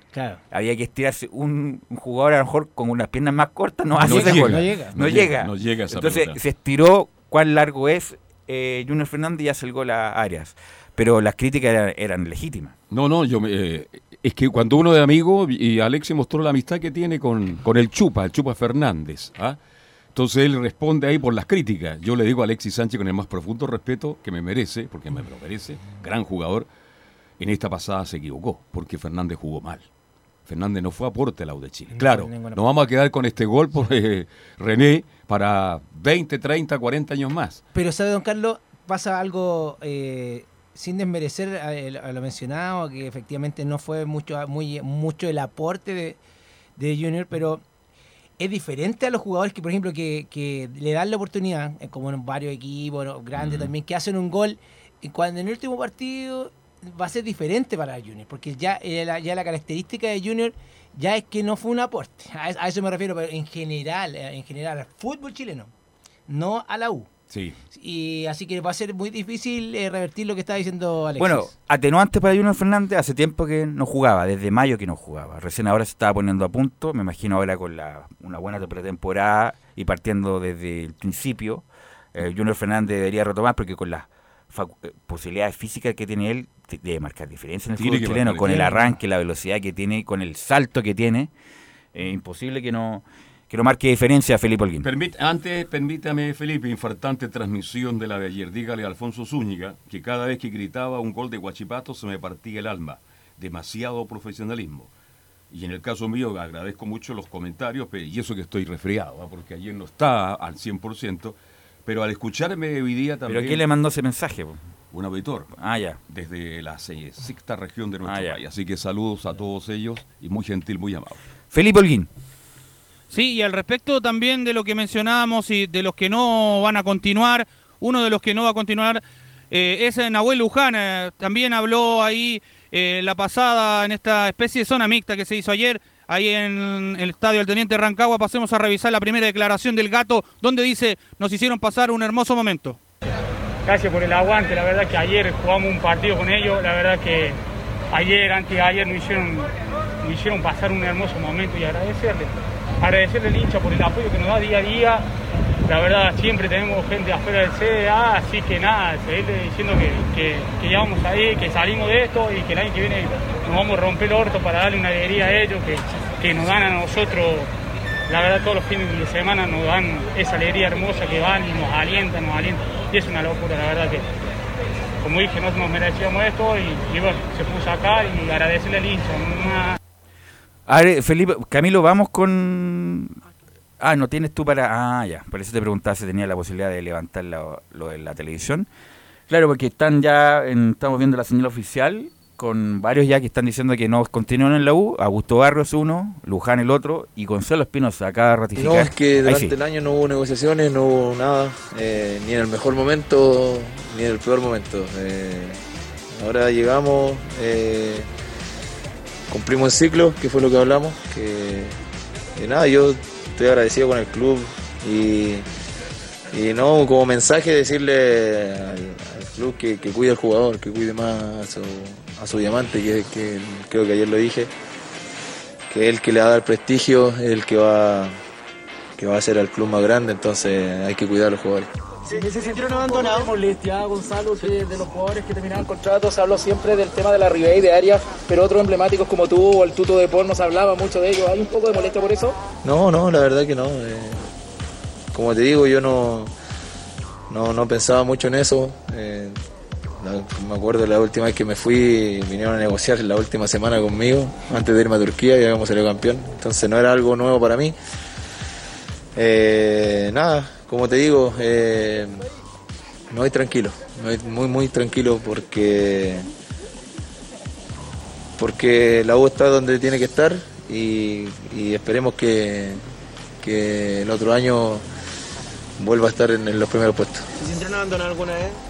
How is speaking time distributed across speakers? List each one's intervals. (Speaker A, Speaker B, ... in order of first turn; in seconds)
Speaker A: 0.1-0.4, 3.9-4.9, 31.9-32.6, 37.7-46.2, 46.8-47.6, 48.4-65.7, 66.3-67.1, 67.7-71.5, 88.4-88.9
Speaker B: 0.5-12.7, 71.2-91.3, 91.9-94.9, 113.3-114.6, 115.5-116.0, 118.0-118.4, 121.5-122.1, 180.7-183.2, 183.8-188.7, 189.3-199.6
Speaker C: 4.0-6.4, 12.9-19.6, 20.1-26.7, 27.4-29.9, 30.4-37.6, 53.4-53.7, 67.3-67.5, 87.8-88.6, 94.8-104.9, 105.5-113.7, 114.9-115.5, 116.1-121.2
Speaker D: 123.1-142.8
Speaker E: 143.7-147.4, 147.9-149.5, 150.0-155.1, 155.7-167.5, 168.1-174.1, 175.0-179.8
Speaker F: 198.6-205.6, 206.2-208.1, 209.3-211.8, 212.3-215.4, 216.3-224.5, 225.7-228.2, 229.0-231.7, 242.6-244.3, 245.1-246.3, 247.3-249.4, 250.0-257.7, 259.1-262.2, 263.1-266.3, 268.4-272.8, 273.4-274.8, 275.8-277.3
Speaker G: 232.5-234.0, 234.5-242.2